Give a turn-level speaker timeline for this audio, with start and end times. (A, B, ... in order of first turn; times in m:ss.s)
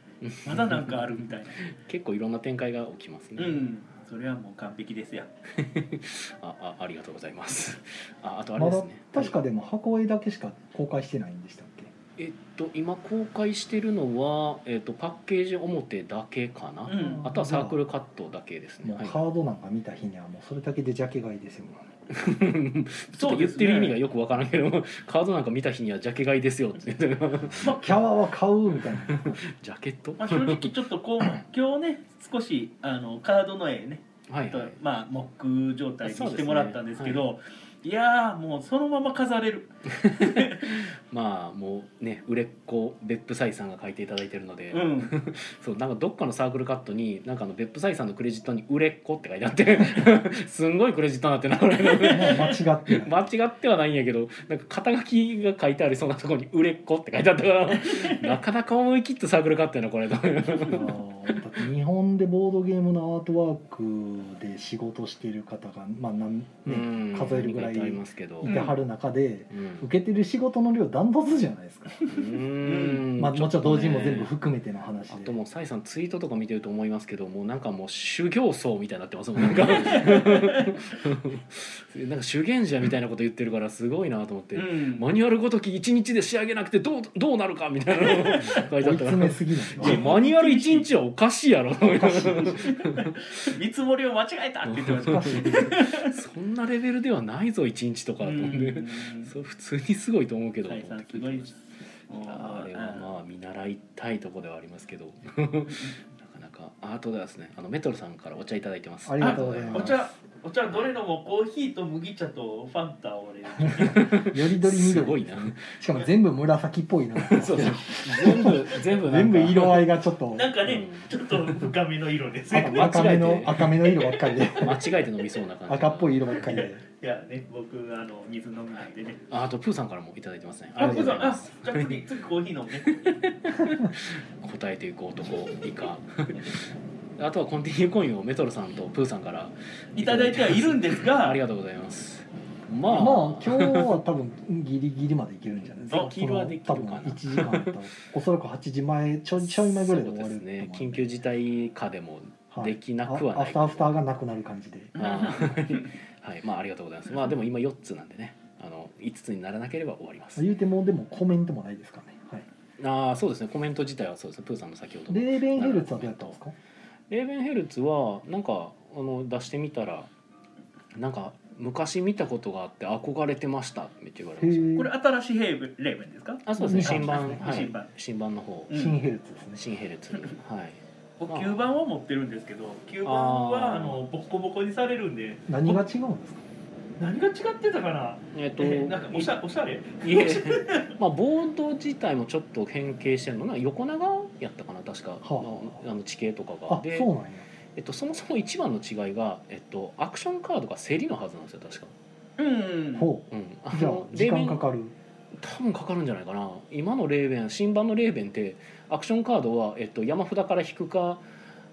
0:00.2-0:03.6 A
0:00.4-0:01.7 B
0:03.4-0:05.3 B
0:05.5-0:09.4 A
0:08.6-0:11.9 C
0:12.2-0:19.2 A
0:16.9-0:17.2 B
0:17.0-0:17.8 C
0:18.8-0:21.9 C
0:22.1-0:27.8 A
0:23.1-0:24.0 B
0:27.6-0:29.4 C
0:27.6-0:27.9 B
0:29.0-0:30.7 A
0:30.2-0:40.8 B
0:34.3-0:34.8 A
0:36.0-0:37.2 A
0:39.9-1:01.0 A
0:44.7-0:45.2 B
0:52.0-0:52.5 B
0:52.1-0:53.1 C
0:57.9-0:58.3 B
1:00.6-1:12.0 C
1:06.6-1:08.6 A
1:08.4-1:08.8 B
1:09.5-1:09.9 A
1:12.1-1:14.4 A
1:12.6-1:13.1 B
1:13.2-1:15.4 C
1:15.1-1:33.2 A
1:19.7-1:20.7 B
1:24.6-1:25.1 B
1:28.8-1:30.0 C
1:29.8-1:30.9 B
1:31.9-1:32.6 C
1:32.4-1:36.1 B
1:34.7-1:41.6 A
1:35.0-1:35.7 C
1:38.2-1:39.3 B
1:40.6-1:43.1 B
1:42.2-1:50.0 A
1:49.1-1:50.1 C
1:49.2-1:54.1 B
1:53.8-1:55.7 A
1:54.2-2:00.5 C
1:57.2-1:59.9 A
2:00.3-2:03.1 B
2:00.7-2:01.1 A
2:02.5-2:04.8 C
2:02.5-2:03.7 A
2:03.8-2:04.8 B
2:04.6-2:06.5 A
2:05.7-2:06.8 C
2:06.4-2:09.2 B
2:09.3-2:12.0 A
2:10.8-2:13.2 B
2:10.8-2:11.2 C
2:12.8-2:16.7 A
2:17.2-2:23.9 A
2:20.0-2:21.4 B
2:22.9-2:31.1 C
2:25.7-2:27.7 A
2:29.4-2:34.0 A
2:32.5-2:34.9 C
2:35.0-2:35.9 B
2:35.0-2:40.5 A
2:40.4-2:42.4 C
2:42.8-2:46.4 A
2:45.1-2:46.5 C
2:47.1-2:50.1 A
2:50.9-2:54.8 A
2:54.4-2:54.9 C
2:54.8-2:57.9 B
2:56.4-2:58.7 A
2:56.6-2:57.7 C
2:58.7-2:59.0 B
2:58.7-2:59.6 C
2:59.6-3:01.6 A
3:01.2-3:05.8 B
3:03.0-3:04.0 A
3:05.5-3:06.4 C
3:07.0-3:11.0 B
3:08.3-3:09.3 A
3:10.0-3:17.1 A
3:15.2-3:15.7 C
3:16.7-3:17.5 C
3:17.7-3:21.9 A
3:22.4-3:23.1 B
3:23.0-3:25.0 C
3:23.3-3:24.6 A
3:25.4-3:31.2 A